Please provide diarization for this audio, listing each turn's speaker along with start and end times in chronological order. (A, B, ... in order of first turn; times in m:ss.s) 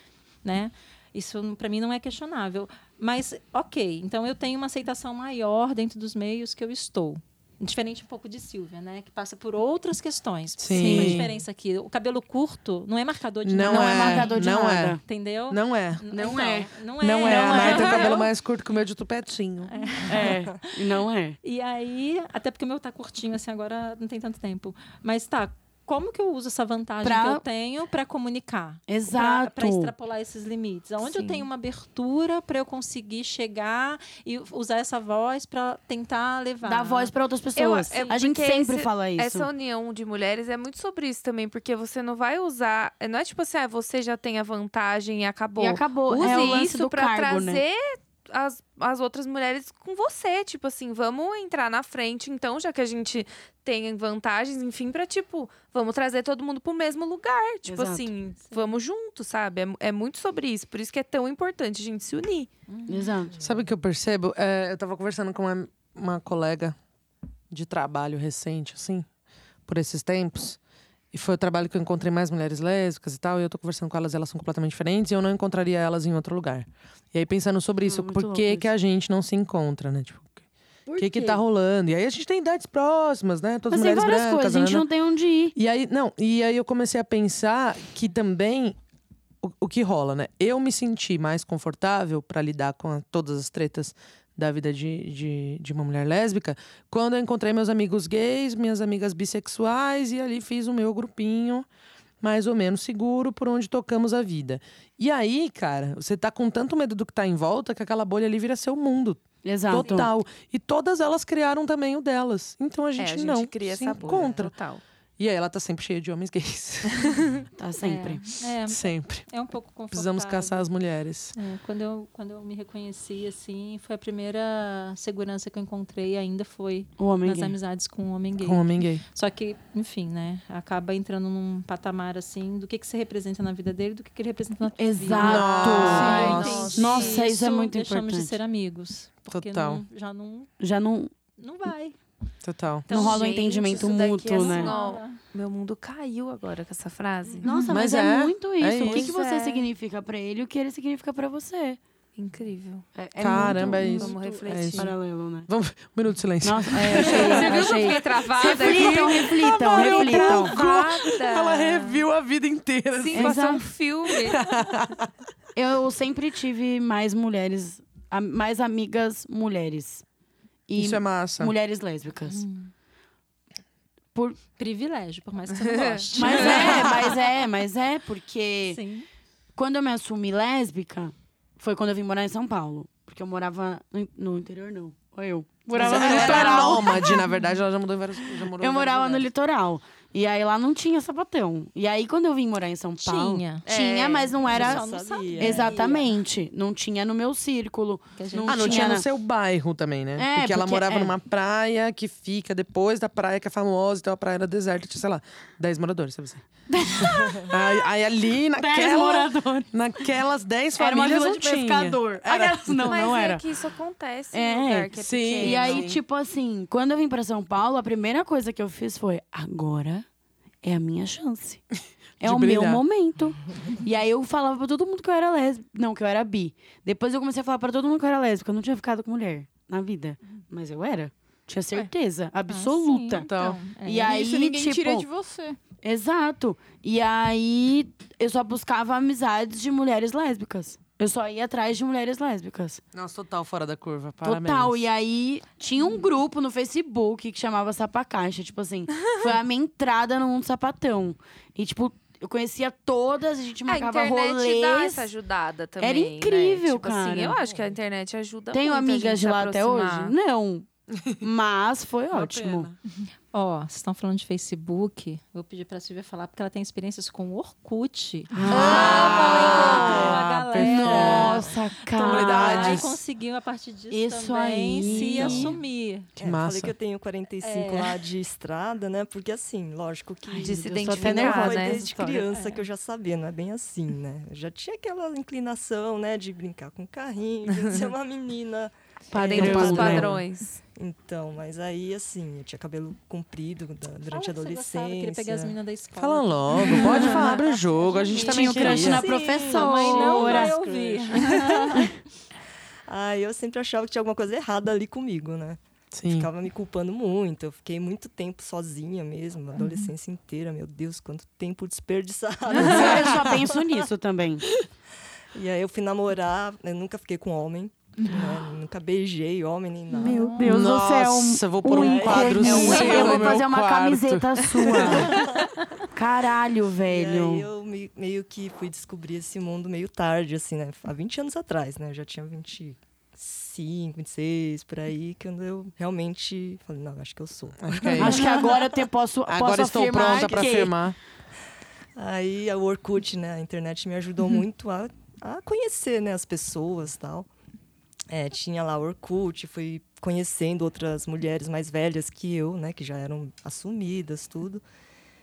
0:00.4-0:14.4 A
0:10.6-0:11.3 B
0:10.7-0:11.2 C
0:13.4-0:15.0 B
0:13.6-0:15.0 C
0:15.0-0:18.3 A
0:15.5-0:16.1 B
0:16.1-0:18.2 C
0:17.0-0:19.7 B
0:19.7-0:20.8 A
0:20.1-0:21.4 C
0:21.4-0:37.1 A
0:27.0-0:27.4 C
0:28.9-0:29.9 C
0:36.6-0:39.5 C
0:37.6-1:02.5 D
0:45.6-0:47.6 C
0:57.6-0:58.1 C
0:58.5-0:58.8 A
1:02.7-1:03.2 A
1:02.9-1:03.4 C
1:03.3-1:03.7 E
1:03.4-1:06.8 B
1:07.5-1:09.1 B
1:09.7-1:10.6 B
1:11.1-1:20.4 B
1:17.8-1:18.7 C
1:20.9-1:21.4 C
1:21.0-1:24.9 B
1:23.7-1:25.6 C
1:25.6-1:28.8 B
1:29.4-1:41.7 B
1:42.2-1:54.5 B
1:49.4-1:50.1 C
1:49.8-1:50.0 A
1:53.0-1:54.8 D
1:54.0-1:54.5 E
1:55.2-1:57.3 B
1:57.6-1:58.2 C
1:57.8-2:00.7 A
1:58.7-1:59.3 B
1:59.9-2:01.4 B
2:01.3-2:20.5 A
2:07.0-2:07.6 C
2:08.4-2:09.0 B
2:14.8-2:18.4 C
2:15.2-2:16.8 B
2:15.2-2:17.2 D
2:16.0-2:16.3 F
2:19.3-2:19.8 B
2:20.6-2:21.1 C
2:21.4-2:22.0 A
2:22.4-2:22.9 B
2:22.9-2:25.2 A
2:22.9-2:24.7 C
2:22.9-2:27.5 D
2:27.4-2:31.8 C
2:27.7-2:29.2 B
2:28.8-2:29.7 D
2:32.2-2:34.9 D
2:33.0-2:35.5 C
2:33.2-2:35.0 B
2:35.5-2:37.9 B
2:36.4-2:40.6 C
2:36.8-2:38.0 A
2:36.9-2:42.0 D
2:38.4-2:43.5 B
2:43.0-2:44.5 D
2:43.1-2:43.7 C
2:44.1-2:45.1 B
2:45.6-2:50.0 C
2:50.7-2:52.4 C
2:50.8-2:51.5 B
2:52.3-2:52.7 A
2:54.6-2:57.2 A
2:55.6-2:56.8 D
2:56.2-2:58.8 C
2:58.7-2:59.1 A
2:59.6-3:07.2 C
3:05.8-3:09.3 B
3:06.0-3:06.8 A
3:06.0-3:06.7 D
3:08.6-3:19.1 C
3:13.0-3:13.6 A
3:13.6-3:14.4 D
3:14.4-3:16.0 E
3:14.4-3:16.1 A
3:18.2-3:18.9 A
3:18.5-3:33.0 B
3:20.2-3:21.1 C
3:26.7-3:27.8 C
3:27.2-3:27.5 E
3:28.6-3:29.7 C
3:30.8-3:33.4 C
3:32.9-3:35.9 D
3:34.3-3:40.0 C
3:35.0-3:36.0 B
3:40.6-3:41.6 C
3:42.2-3:53.3 C
3:42.2-3:42.8 B
3:52.5-3:54.1 A
3:53.2-3:55.6 F
3:53.3-3:53.6 B
3:53.8-3:55.1 C
3:55.7-4:02.8 C
4:02.9-4:04.8 B
4:04.2-4:15.1 C
4:13.7-4:20.2 D
4:15.8-4:17.4 C
4:17.4-4:17.8 E
4:18.5-4:20.6 C
4:21.0-4:21.2 B
4:21.2-4:22.7 C
4:22.1-4:22.8 B
4:23.3-4:36.1 A
4:28.3-4:32.9 C
4:28.5-4:33.0 B
4:28.5-4:30.1 D
4:33.9-4:35.6 C
4:34.8-4:35.6 E
4:36.2-4:36.8 B
4:36.2-4:50.2 E
4:37.4-4:38.0 A
4:40.3-4:42.2 C
4:40.4-4:41.9 D
4:42.0-4:42.6 A
4:49.1-4:50.2 C
4:49.2-4:50.6 D
4:49.4-4:50.0 B
4:50.7-4:55.6 E
4:54.1-5:01.9 A
4:56.0-4:59.1 B
4:56.7-4:57.1 E
4:58.1-5:01.9 E
4:58.2-5:00.6 C
5:02.9-5:13.9 E
5:05.9-5:06.3 B
5:12.5-5:14.5 C
5:12.6-5:13.3 B
5:15.3-5:20.4 E
5:18.0-5:18.4 F
5:20.0-5:25.3 C
5:20.0-5:20.6 F
5:20.4-5:25.2 B
5:21.7-5:23.3 E
5:22.4-5:23.4 D
5:24.8-5:25.6 E
5:25.9-5:27.5 C
5:26.8-5:38.9 E
5:37.6-5:38.3 B
5:38.0-5:40.7 C
5:39.3-5:41.0 B
5:40.0-5:40.7 E
5:42.0-5:47.3 E
5:48.1-5:54.6 E